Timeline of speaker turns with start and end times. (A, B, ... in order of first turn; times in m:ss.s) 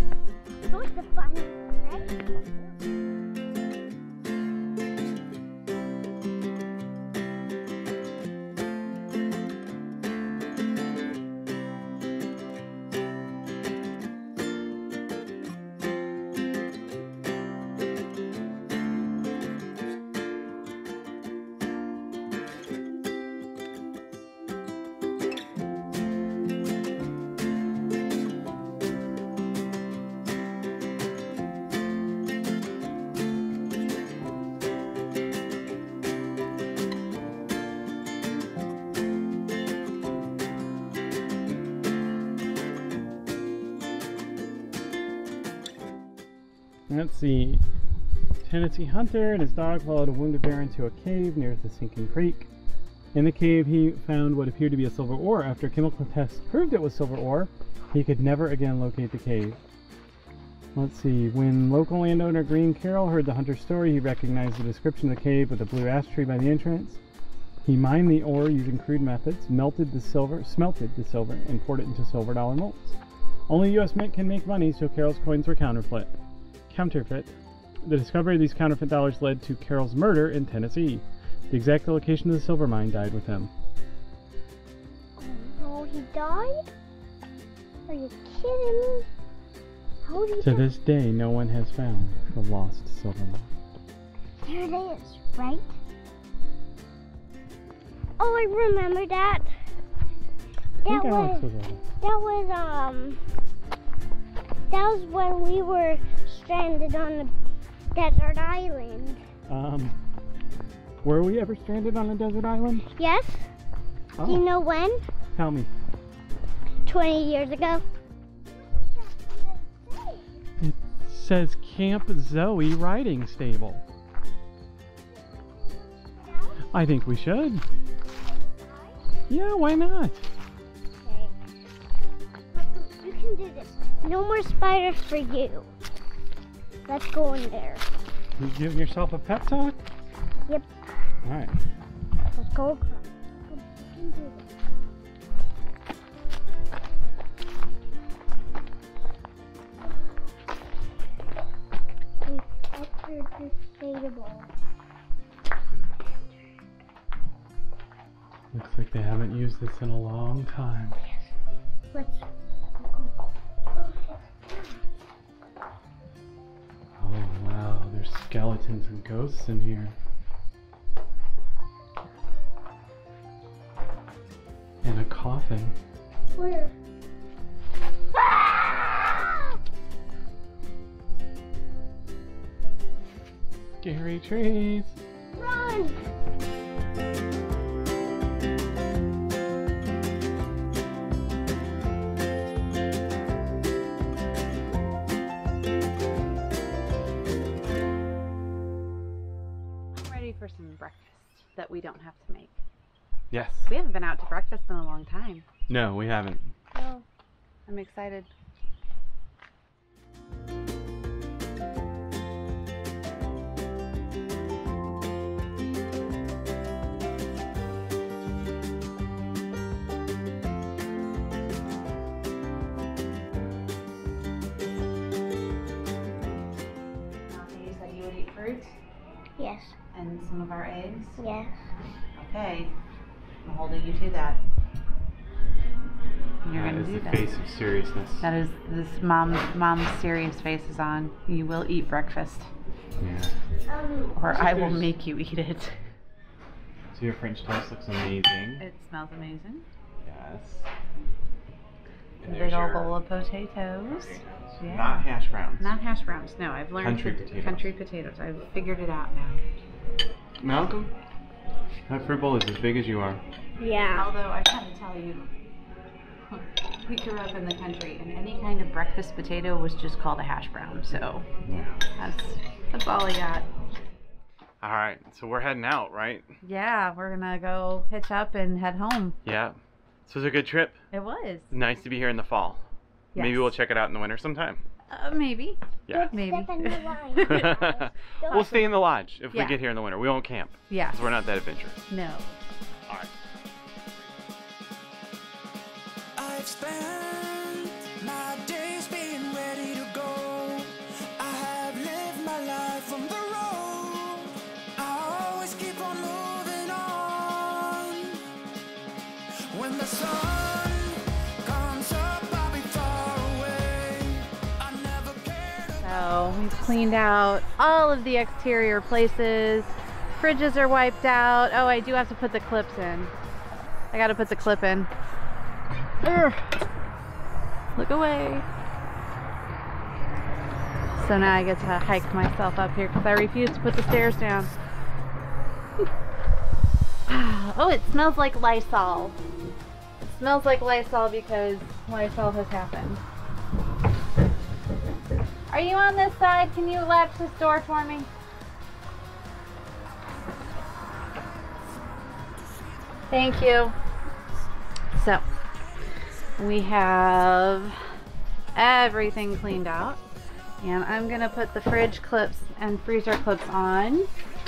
0:00.6-0:02.1 A
0:46.9-0:47.6 B
0:48.4-0:52.5 B
0:53.1-0:59.6 B
1:00.8-1:07.0 B
1:07.6-1:13.0 B
1:13.5-1:16.1 B
1:16.7-1:17.3 B
1:17.8-1:23.5 B
1:25.2-1:26.6 A
1:27.9-1:29.1 A
1:30.0-1:30.7 A
1:30.4-1:33.5 B
1:34.4-1:35.7 A
1:38.2-1:39.5 A
1:40.8-1:41.4 A
1:40.8-1:41.8 B
1:42.0-1:43.2 A
1:44.7-1:47.3 A
1:47.9-1:49.2 A
1:49.5-1:50.0 B
1:51.0-1:52.9 B
1:52.9-1:53.5 A
1:54.2-1:54.5 B
1:54.2-1:55.0 A
1:55.3-1:55.7 B
1:56.9-1:57.8 A
1:59.0-2:00.3 A
2:00.6-2:03.8 B
2:06.0-2:06.7 A
2:06.7-2:07.6 B
2:08.6-2:09.0 A
2:09.3-2:10.3 B
2:11.0-2:11.3 A
2:12.5-2:15.7 A
2:16.8-2:17.8 A
2:18.4-2:19.8 B
2:21.2-2:21.5 B
2:22.3-2:24.4 A
2:32.2-2:34.5 A
2:38.5-2:41.0 B
2:41.9-2:42.2 A
2:42.8-2:43.1 A
2:43.8-2:44.8 A
2:47.0-2:49.9 B
2:54.8-2:55.8 B
2:56.4-2:56.7 A
2:58.2-2:59.2 A
3:03.8-3:04.9 B
3:05.3-3:06.0 A
3:19.9-3:22.6 C
3:23.3-3:23.7 B
3:23.7-3:25.4 C
3:25.7-3:26.5 B
3:26.7-3:27.0 A
3:27.7-3:28.3 C
3:47.3-3:48.8 C
3:49.4-3:49.7 A
3:49.9-3:51.2 C
3:51.2-3:51.5 A
3:52.2-3:52.8 C
3:53.4-3:54.4 C
3:56.4-3:57.3 C
3:56.5-3:58.3 B
3:58.2-4:02.5 C
4:03.0-4:03.4 B
4:03.7-4:04.1 A
4:04.1-4:05.8 C
4:04.3-4:04.9 B
4:06.9-4:08.6 B
4:08.6-4:09.7 C
4:10.0-4:10.7 B
4:12.2-4:12.9 B
4:12.2-4:15.1 C
4:13.9-4:15.7 B
4:15.6-4:19.4 C
4:16.8-4:17.7 B
4:20.4-4:20.9 B
4:21.9-4:23.2 B
4:23.6-4:24.1 A
4:23.9-4:25.3 C
4:26.3-4:31.3 C
4:31.4-4:31.8 B
4:32.0-4:33.5 C
4:34.6-4:36.3 B
4:36.4-4:39.2 C
4:39.2-4:40.8 B
4:40.9-4:41.5 C
4:41.5-4:42.6 B
4:43.1-4:43.5 C
4:43.2-4:44.6 B
4:44.9-4:47.4 C
4:45.9-4:46.2 B
4:45.9-4:48.6 A
4:47.2-4:51.8 B
4:49.3-4:49.6 C
4:50.7-4:51.0 C
4:51.9-4:52.4 C
4:56.2-5:08.2 D
5:09.5-5:16.3 D
5:15.8-5:23.1 C
5:23.9-5:24.9 C
5:26.0-5:26.3 B
5:27.8-5:28.4 C
5:30.9-5:34.5 C
5:37.1-5:39.2 C
5:40.0-5:43.0 C
5:45.5-5:48.1 C
5:53.1-5:53.7 C
5:54.9-5:55.2 C
5:56.4-5:57.8 C
5:58.5-6:00.0 C
6:00.6-6:04.1 C